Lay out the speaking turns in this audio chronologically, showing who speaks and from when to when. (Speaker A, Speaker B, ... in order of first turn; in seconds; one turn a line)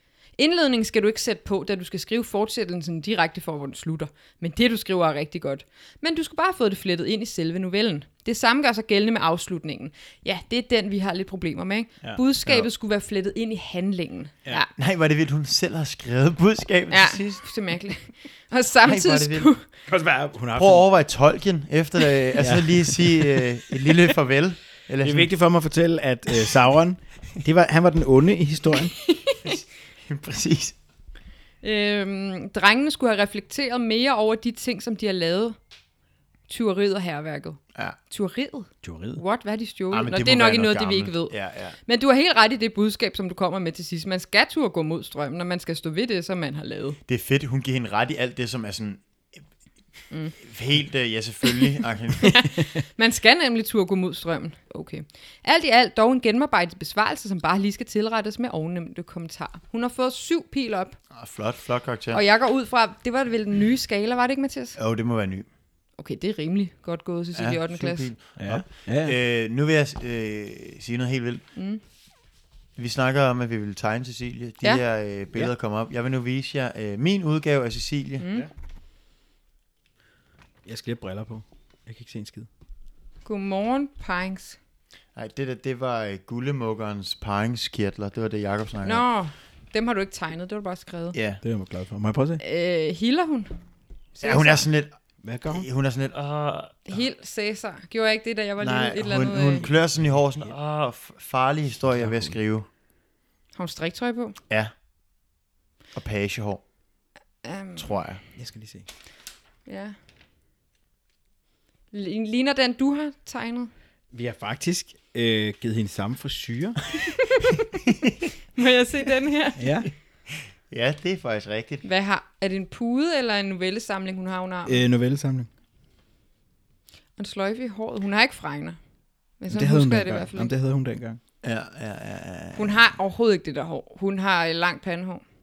Speaker A: 0.4-14.7
Speaker B: 12.0-12.6
Speaker C: 14.8-17.4
Speaker A: 16.9-19.6
Speaker C: 18.8-19.5
Speaker B: 19.9-20.8
Speaker C: 20.6-25.3
Speaker B: 22.4-24.0
Speaker B: 25.0-28.9
Speaker A: 28.9-29.4
Speaker C: 29.4-30.8
Speaker A: 31.6-35.5
Speaker A: 36.5-47.0
Speaker B: 38.8-39.2
Speaker C: 39.9-41.8
Speaker C: 47.1-49.0
Speaker A: 50.1-50.4
Speaker C: 50.4-52.5
Speaker A: 51.5-61.0
Speaker C: 61.1-62.2
Speaker A: 62.1-64.8
Speaker C: 64.8-65.5
Speaker A: 66.0-68.1
Speaker C: 67.3-71.4
Speaker B: 68.3-69.2
Speaker C: 72.8-78.5
Speaker A: 78.2-78.5
Speaker B: 80.6-82.5
Speaker A: 83.2-84.6
Speaker C: 85.1-89.0
Speaker A: 88.8-91.2
Speaker C: 91.1-91.4
Speaker B: 91.4-92.4
Speaker A: 92.4-93.5
Speaker A: 94.2-94.7
Speaker C: 94.2-95.0
Speaker B: 95.2-95.7
Speaker C: 95.5-96.8
Speaker A: 96.8-99.7
Speaker C: 98.6-102.7
Speaker B: 102.0-102.3
Speaker A: 103.5-104.3
Speaker C: 105.9-106.6
Speaker A: 107.4-107.9
Speaker C: 107.8-108.2
Speaker B: 108.4-108.8
Speaker A: 109.7-109.9
Speaker A: 111.9-113.7
Speaker B: 114.1-116.8
Speaker A: 117.2-117.6
Speaker C: 117.8-118.3
Speaker A: 118.5-119.7
Speaker B: 119.6-119.9
Speaker C: 120.7-121.8
Speaker A: 121.8-124.8
Speaker B: 124.7-125.5
Speaker A: 127.2-128.8
Speaker A: 129.4-130.5
Speaker B: 129.5-131.2
Speaker C: 131.4-132.8
Speaker A: 132.5-135.2